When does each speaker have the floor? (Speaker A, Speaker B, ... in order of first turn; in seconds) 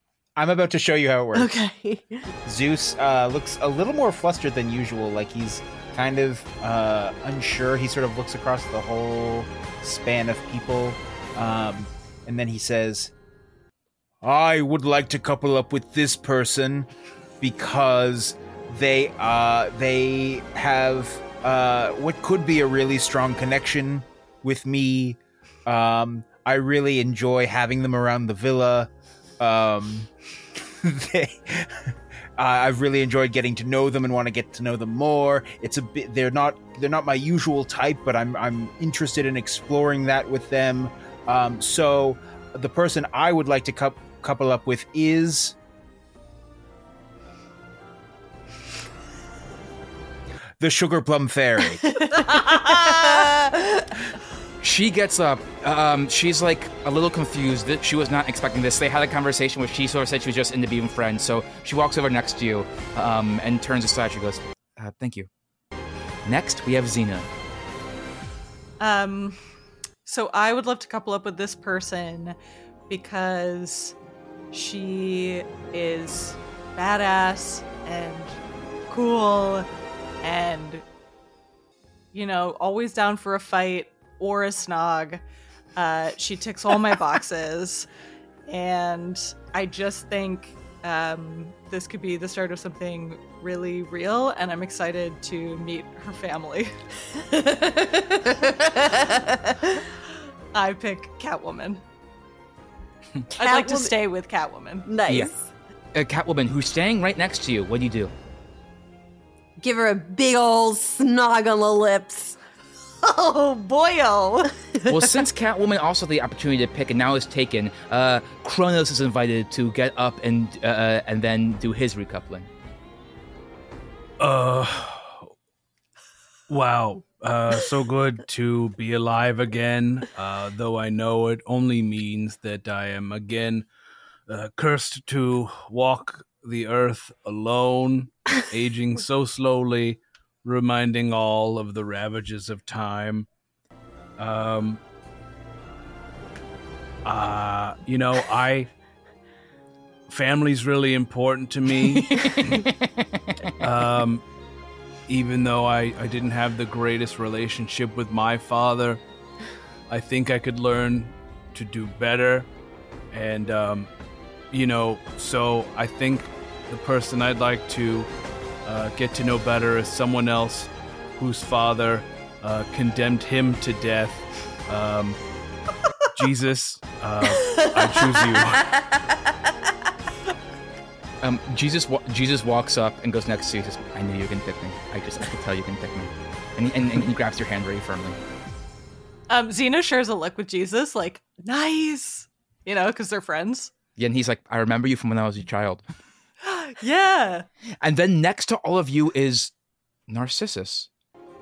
Speaker A: 0.3-1.5, 2.4-13.1, 14.2-45.5, 50.6-51.8
Speaker B: 1.3-2.2, 52.1-53.8, 97.3-99.7, 103.3-103.9, 104.8-105.5, 109.6-112.4
Speaker C: 52.3-53.2, 68.8-69.4, 70.0-72.3, 72.9-73.9, 74.5-78.4, 78.9-79.7, 80.2-80.8, 82.1-85.2, 85.8-87.9, 88.5-96.7, 100.5-101.8, 103.4-104.9, 113.0-114.5, 189.3-193.7, 196.4-197.4
Speaker D: 54.6-65.3, 66.2-67.3, 105.9-108.1, 114.8-122.5, 152.2-152.7, 181.2-188.2, 194.0-195.8, 197.8-199.5, 200.1-200.9
Speaker E: 124.2-125.3, 126.5-133.7, 134.3-143.3, 144.2-144.8, 147.0-148.7, 150.1-152.7, 153.6-154.2, 155.1-159.0, 159.9-162.5, 163.1-163.9, 164.5-168.1, 168.6-175.2, 176.1-178.7